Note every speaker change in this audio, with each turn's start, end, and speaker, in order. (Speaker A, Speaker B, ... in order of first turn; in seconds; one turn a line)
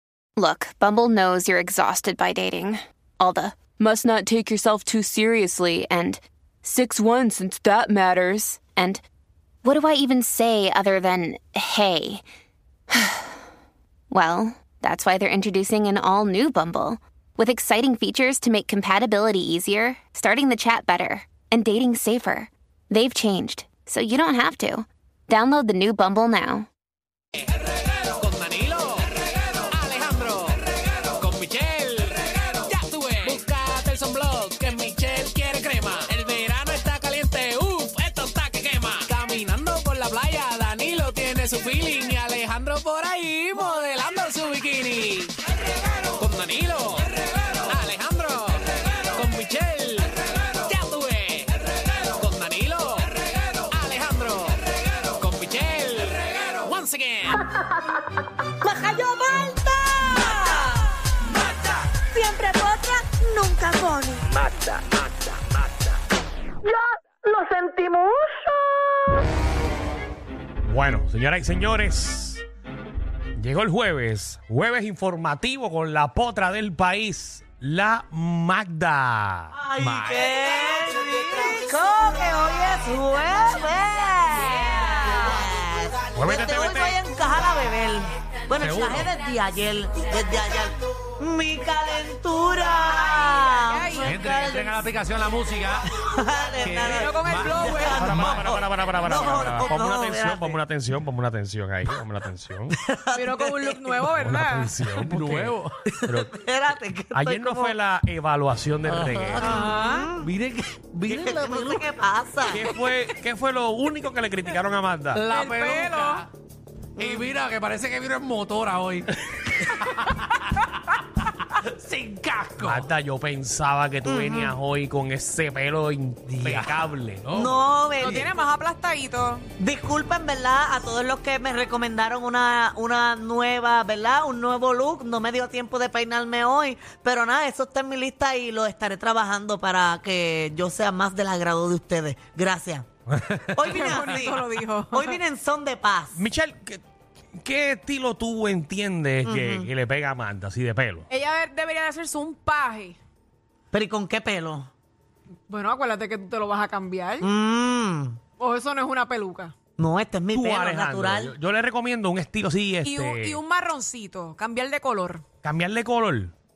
Speaker A: 0.4-9.0
Speaker A: 9.6-12.2
Speaker A: 12.9-13.3
Speaker A: 14.1-26.7
Speaker B: 28.2-30.6
Speaker B: 31.2-45.4
Speaker B: 46.2-51.5
Speaker B: 52.1-53.2
Speaker B: 53.7-54.6
Speaker B: 55.2-57.4
Speaker C: 58.6-60.9
Speaker C: 61.9-64.8
Speaker C: 67.2-68.2
Speaker D: 70.6-72.4
Speaker D: 73.4-79.5
Speaker C: 79.5-94.7
Speaker B: 79.8-80.5
Speaker D: 86.2-87.0
Speaker B: 88.6-89.1
Speaker E: 93.5-94.7
Speaker B: 94.0-95.9
Speaker C: 95.9-100.6
Speaker B: 96.6-98.6
Speaker E: 96.9-98.0
Speaker D: 98.0-102.7
Speaker C: 102.7-104.1
Speaker E: 103.1-104.7
Speaker D: 104.1-106.3
Speaker B: 104.8-105.7
Speaker C: 105.9-107.8
Speaker D: 107.1-109.5
Speaker B: 108.8-111.9
Speaker C: 109.4-110.3
Speaker E: 109.4-110.1
Speaker C: 111.1-112.7
Speaker D: 112.5-115.2
Speaker E: 115.2-116.3
Speaker B: 115.2-116.3
Speaker C: 117.0-117.3
Speaker B: 117.0-122.9
Speaker D: 122.6-127.3
Speaker C: 124.0-124.6
Speaker B: 126.2-128.4
Speaker C: 127.3-128.3
Speaker E: 128.0-129.5
Speaker C: 129.6-142.9
Speaker C: 143.5-146.2
Speaker E: 143.6-145.2
Speaker D: 146.2-146.8
Speaker D: 147.4-151.1
Speaker C: 149.2-149.7
Speaker E: 151.1-153.0
Speaker C: 153.7-154.7
Speaker E: 155.5-157.3
Speaker C: 157.2-158.2
Speaker E: 158.4-159.5
Speaker C: 159.8-161.3
Speaker D: 160.3-163.4
Speaker E: 162.8-165.2
Speaker D: 165.4-166.3